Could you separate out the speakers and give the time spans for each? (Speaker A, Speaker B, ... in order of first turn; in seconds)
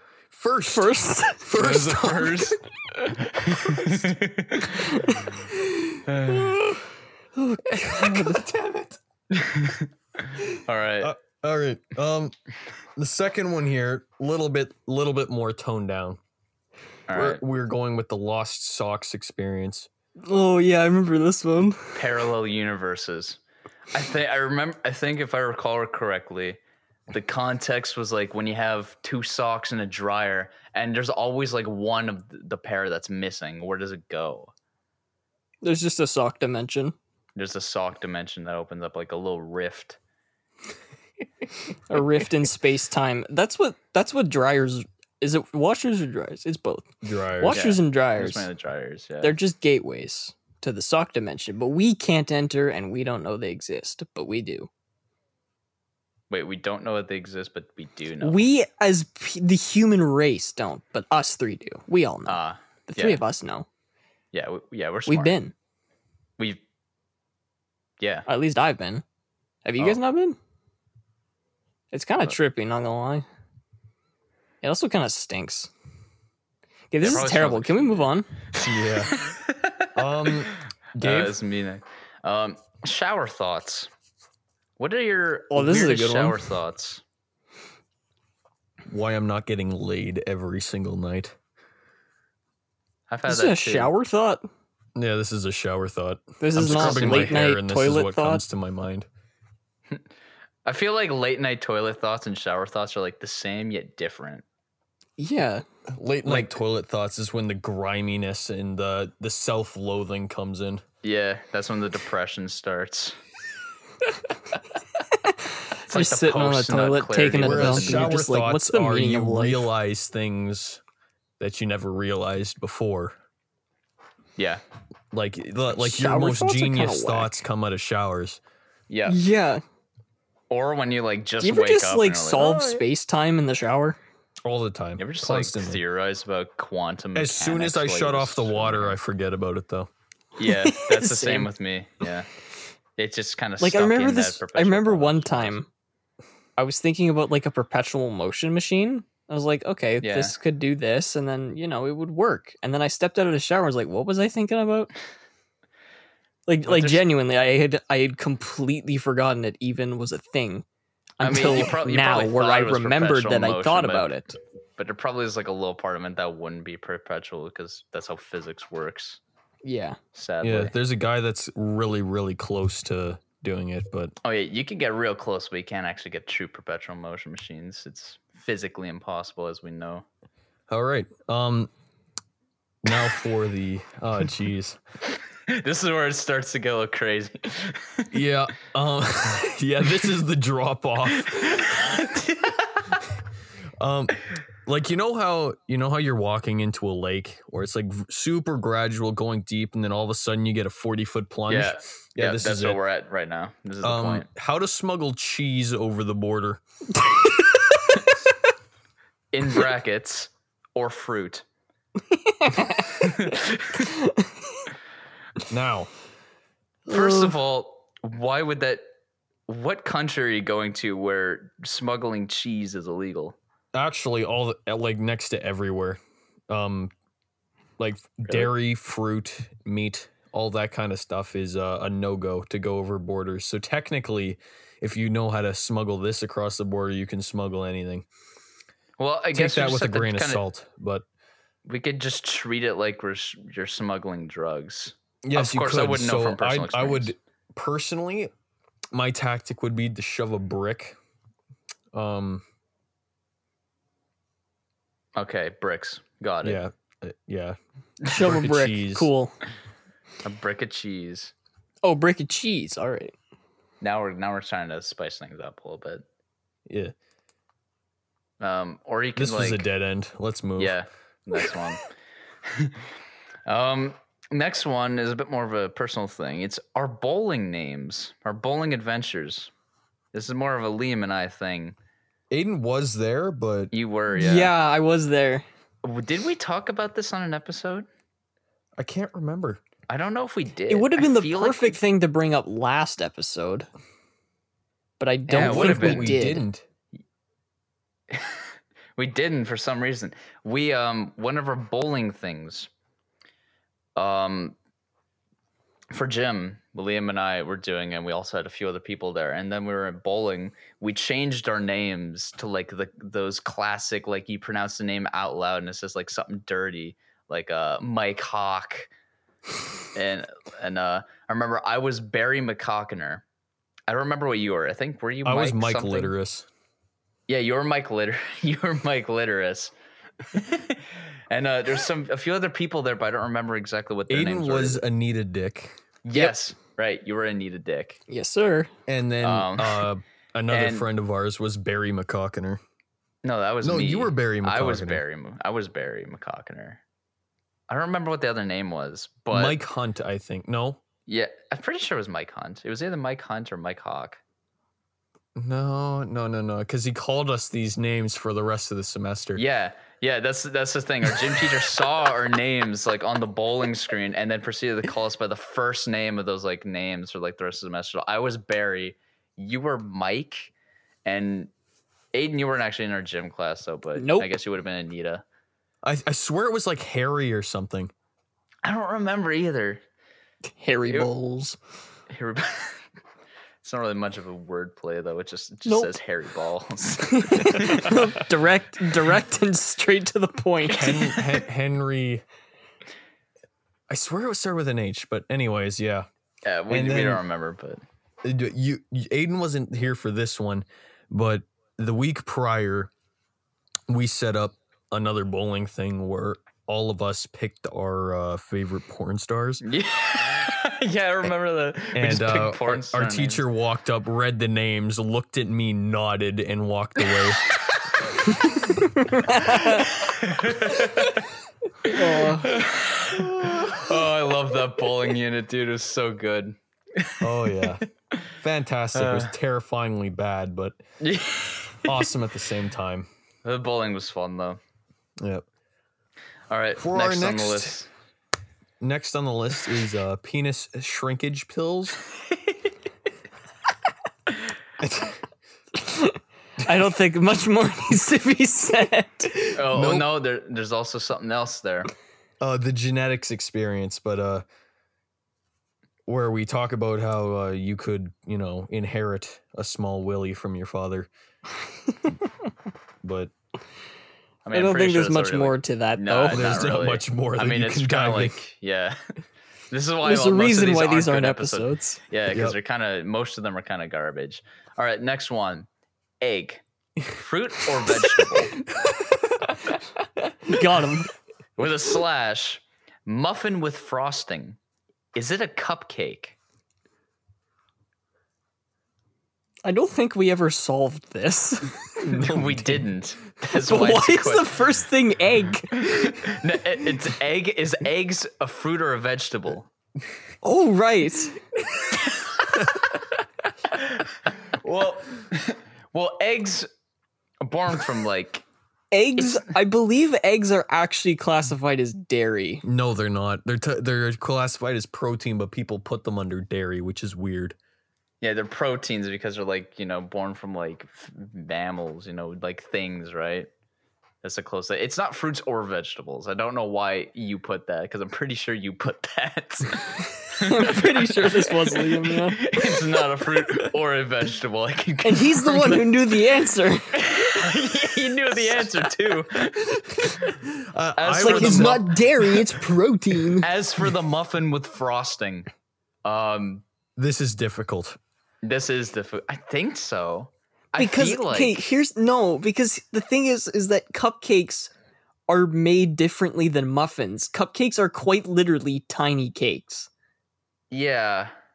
Speaker A: 0.3-2.4, 7.7-9.0, 11.0-12.3, 12.9-16.2, 17.1-19.9, 47.0-47.6, 78.6-79.1, 79.9-81.4, 88.9-91.3, 95.0-99.1, 105.9-110.8, 117.4-120.8, 121.4-123.2, 125.1-128.4, 134.4-135.8, 137.1-139.9, 170.4-174.1, 180.7-181.7, 182.8-184.8, 188.1-191.9, 193.8-202.8, 203.8-206.6, 215.5-215.9, 223.7-226.0, 226.5-226.9, 227.8-238.1, 239.3-241.0, 245.2-248.3, 248.9-251.0, 251.9-252.4, 256.4-257.6, 258.1-259.1, 266.7-266.9, 269.1-270.8, 282.3-283.7, 288.8-289.6, 295.4-296.6, 325.2-326.5, 334.1-336.3, 338.9-342.6, 343.6-345.0, 349.3-350.8, 355.4-359.4, 375.8-377.9, 390.7-392.2, 393.9-396.1, 396.7-397.2, 398.2-402.9, 403.9-409.6, 411.9-417.4, 427.2-427.8, 428.4-430.8, 431.8-433.1, 436.8-437.7, 438.8-442.0, 444.8-445.2, 449.7-450.1, 452.4-454.4, 456.1-461.1, 463.0-463.3, 466.3-468.4, 472.3-472.6, 478.8-479.6, 492.1-492.8, 512.6-517.5, 540.4-541.9, 547.0-548.0
Speaker B: 0.7-1.6, 4.7-6.3, 7.3-8.4, 20.2-22.0, 35.6-36.9, 41.9-48.5, 49.2-54.7, 58.2-63.7, 65.1-65.5, 68.3-69.0, 69.7-70.4, 71.9-73.2, 74.6-75.7, 76.9-78.3, 85.5-86.4, 93.3-94.4, 96.4-98.4, 105.2-105.6, 115.1-119.7, 125.8-127.4, 129.1-129.6, 131.4-134.0, 140.4-141.5, 143.6-145.7, 146.6-154.9, 156.5-160.6, 161.2-164.4, 169.6-170.0, 207.0-207.6, 212.1-213.2, 213.8-214.6, 216.9-217.3, 258.0-259.3, 261.8-263.1, 284.1-285.4, 290.7-293.7, 295.0-296.4, 338.1-338.7, 374.0-374.3, 380.6-381.6, 385.6-385.9, 387.1-390.9, 418.3-419.9, 421.8-422.5, 445.7-449.4, 464.5-466.4, 470.0-472.0, 480.4-481.1, 489.6-492.1, 493.5-495.8, 500.4-501.4, 508.9-512.6, 530.3-532.4, 535.0-537.0, 541.2-543.5, 550.8-554.7, 555.3-559.9
Speaker C: 1.6-5.1, 6.1-6.6, 9.3-11.1, 17.1-17.4, 21.9-23.4, 23.9-34.5, 37.4-40.0, 47.5-49.4, 56.3-58.5, 62.3-63.2, 64.3-65.3, 68.0-68.2, 77.0-78.1, 79.1-83.9, 84.8-87.0, 93.1-93.9, 96.6-97.2, 100.6-104.4, 111.0-113.2, 115.9-118.1, 124.4-124.6, 128.9-129.2, 130.5-132.8, 135.0-139.0, 140.4-142.3, 143.0-145.6, 150.0-150.3, 156.7-157.1, 161.2-164.1, 164.8-169.2, 170.1-170.7, 174.2-180.0, 185.5-188.1, 191.2-193.0, 201.5-204.3, 209.3-211.4, 212.9-213.9, 216.9-218.8, 219.5-223.3, 228.2-228.5, 239.0-240.4, 241.7-247.1, 255.2-256.6, 260.2-261.3, 263.8-266.0, 268.4-269.6, 270.6-271.9, 272.4-272.9, 273.4-279.5, 280.1-281.7, 283.7-284.5, 285.8-287.9, 289.9-291.8, 295.3-296.3, 298.1-302.7, 303.9-304.6, 305.9-318.9, 319.9-323.2, 323.9-326.1, 327.3-329.7, 330.3-334.8, 336.1-338.0, 339.2-339.9, 340.5-340.9, 343.2-346.8, 347.7-349.6, 351.1-354.2, 359.3-370.5, 371.0-371.5, 372.1-375.2, 378.6-379.8, 382.1-382.8, 383.6-388.1, 390.7-391.4, 396.4-397.8, 409.6-413.4, 419.6-421.2, 421.9-428.2, 428.9-429.3, 431.0-432.1, 433.4-434.6, 436.5-437.9, 442.3-442.6, 449.5-451.9, 464.4-469.0, 469.7-475.7, 476.2-478.6, 481.6-484.6, 485.1-486.4, 492.1-494.5, 495.7-499.7, 502.0-502.6, 503.7-506.7, 507.4-508.4, 518.2-523.5, 524.2-535.9, 536.9-540.2, 541.0-542.5, 543.4-545.5, 546.0-546.6, 548.4-551.7, 560.7-561.3